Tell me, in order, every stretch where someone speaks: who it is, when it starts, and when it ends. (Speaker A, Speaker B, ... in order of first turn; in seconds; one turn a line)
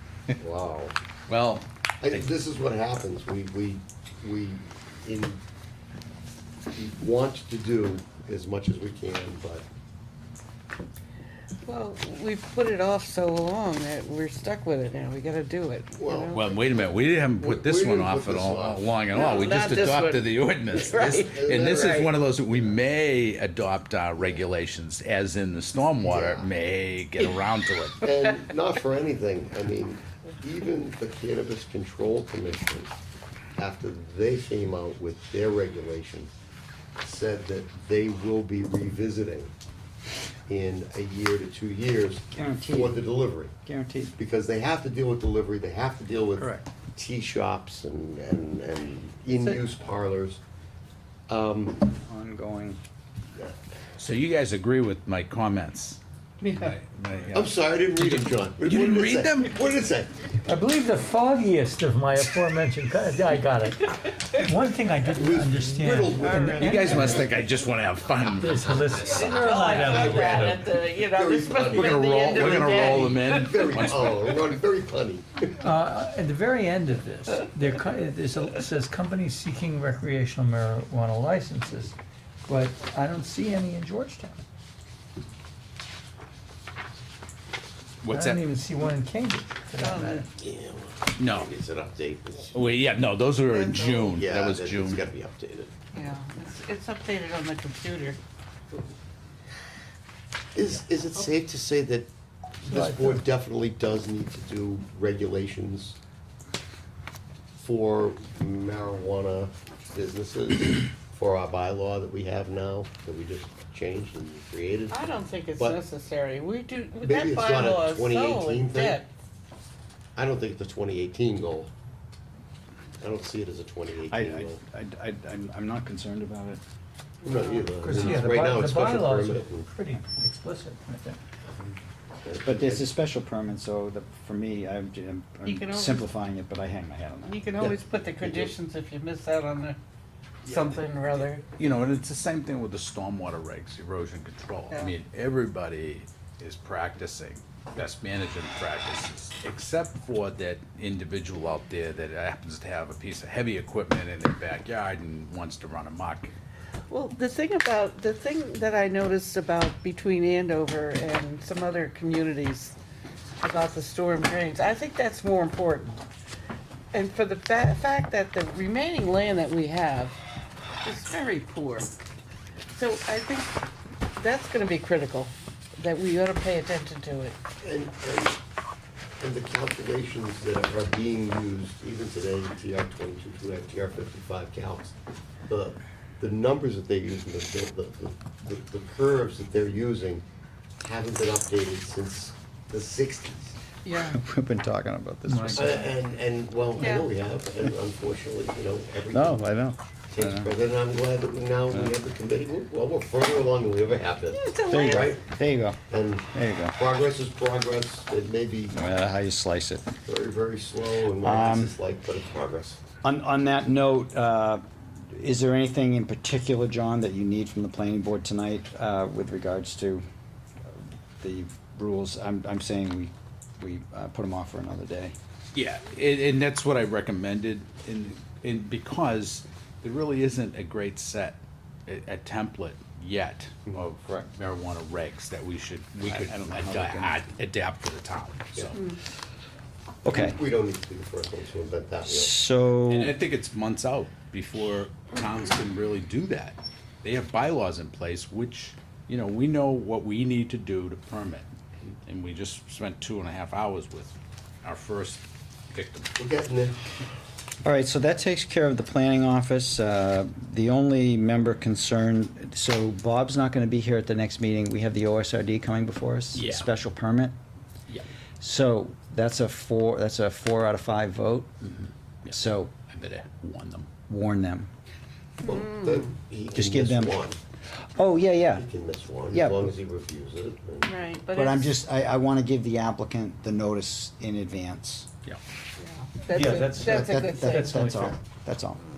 Speaker A: 0.4-0.9
Speaker B: 1.3-2.2
Speaker A: 2.0-5.4
Speaker A: 6.7-9.7
Speaker C: 11.6-16.5
Speaker A: 15.9-18.9
Speaker B: 16.3-28.0
Speaker C: 19.1-22.1
Speaker A: 20.9-22.7
Speaker A: 26.0-26.5
Speaker A: 28.0-32.9
Speaker A: 33.5-36.3
Speaker A: 37.0-39.5
Speaker A: 40.5-43.5
Speaker D: 42.3-43.1
Speaker D: 43.6-44.1
Speaker A: 44.1-50.4
Speaker D: 46.4-46.6
Speaker A: 51.3-51.9
Speaker D: 52.0-52.8
Speaker B: 54.0-59.5
Speaker A: 57.3-60.4
Speaker E: 60.4-67.2
Speaker C: 63.9-64.3
Speaker A: 65.1-67.3
Speaker B: 66.6-69.8
Speaker E: 68.3-70.7
Speaker C: 68.9-73.3
Speaker A: 71.1-75.6
Speaker B: 71.7-74.4
Speaker E: 75.6-82.0
Speaker E: 82.5-84.4
Speaker B: 88.0-88.4
Speaker E: 88.1-90.3
Speaker C: 89.8-90.2
Speaker A: 90.2-92.6
Speaker B: 91.2-91.5
Speaker B: 92.5-95.0
Speaker C: 93.5-94.1
Speaker A: 94.1-95.7
Speaker C: 95.9-98.2
Speaker A: 100.5-102.1
Speaker A: 102.6-106.0
Speaker E: 102.7-103.2
Speaker A: 107.6-115.8
Speaker C: 114.9-119.1
Speaker A: 117.0-119.0
Speaker A: 120.2-121.7
Speaker A: 123.0-124.6
Speaker D: 124.1-126.6
Speaker A: 127.2-129.7
Speaker C: 127.2-128.2
Speaker E: 127.8-131.2
Speaker A: 132.2-132.9
Speaker D: 132.4-137.5
Speaker C: 135.4-136.1
Speaker C: 137.2-139.8
Speaker A: 137.6-138.5
Speaker A: 140.4-140.8
Speaker C: 140.4-141.4
Speaker B: 141.6-156.3
Speaker C: 156.9-162.8
Speaker C: 163.4-166.0
Speaker C: 166.9-170.2
Speaker C: 170.8-171.9
Speaker C: 172.7-173.6
Speaker C: 174.2-177.4
Speaker A: 177.6-178.4
Speaker A: 179.2-184.9
Speaker A: 185.5-190.2
Speaker A: 190.8-193.6
Speaker C: 193.8-194.2
Speaker D: 194.0-195.9
Speaker E: 195.3-195.8
Speaker A: 195.5-199.4
Speaker C: 196.8-197.1
Speaker D: 199.1-200.5
Speaker A: 200.1-205.2
Speaker D: 201.7-202.0
Speaker C: 204.3-205.2
Speaker D: 204.7-205.8
Speaker A: 205.9-208.8
Speaker D: 206.3-206.8
Speaker D: 208.7-209.9
Speaker A: 210.0-212.8
Speaker D: 211.2-211.8
Speaker D: 213.0-220.0
Speaker D: 221.2-225.2
Speaker B: 225.5-238.8
Speaker D: 236.1-237.2
Speaker D: 240.0-240.4
Speaker A: 240.0-242.4
Speaker D: 242.1-243.2
Speaker B: 242.9-251.5
Speaker B: 252.1-256.1
Speaker A: 256.2-256.8
Speaker D: 257.6-267.4
Speaker B: 266.3-266.7
Speaker D: 268.4-271.7
Speaker B: 271.8-273.9
Speaker D: 272.3-272.7
Speaker D: 274.1-274.7
Speaker A: 275.4-277.4
Speaker C: 275.4-276.1
Speaker D: 276.5-277.1
Speaker D: 277.9-278.6
Speaker A: 278.5-280.9
Speaker D: 279.3-279.7
Speaker C: 280.8-281.8
Speaker D: 281.3-285.1
Speaker C: 285.8-288.1
Speaker E: 286.3-288.1
Speaker D: 286.6-288.8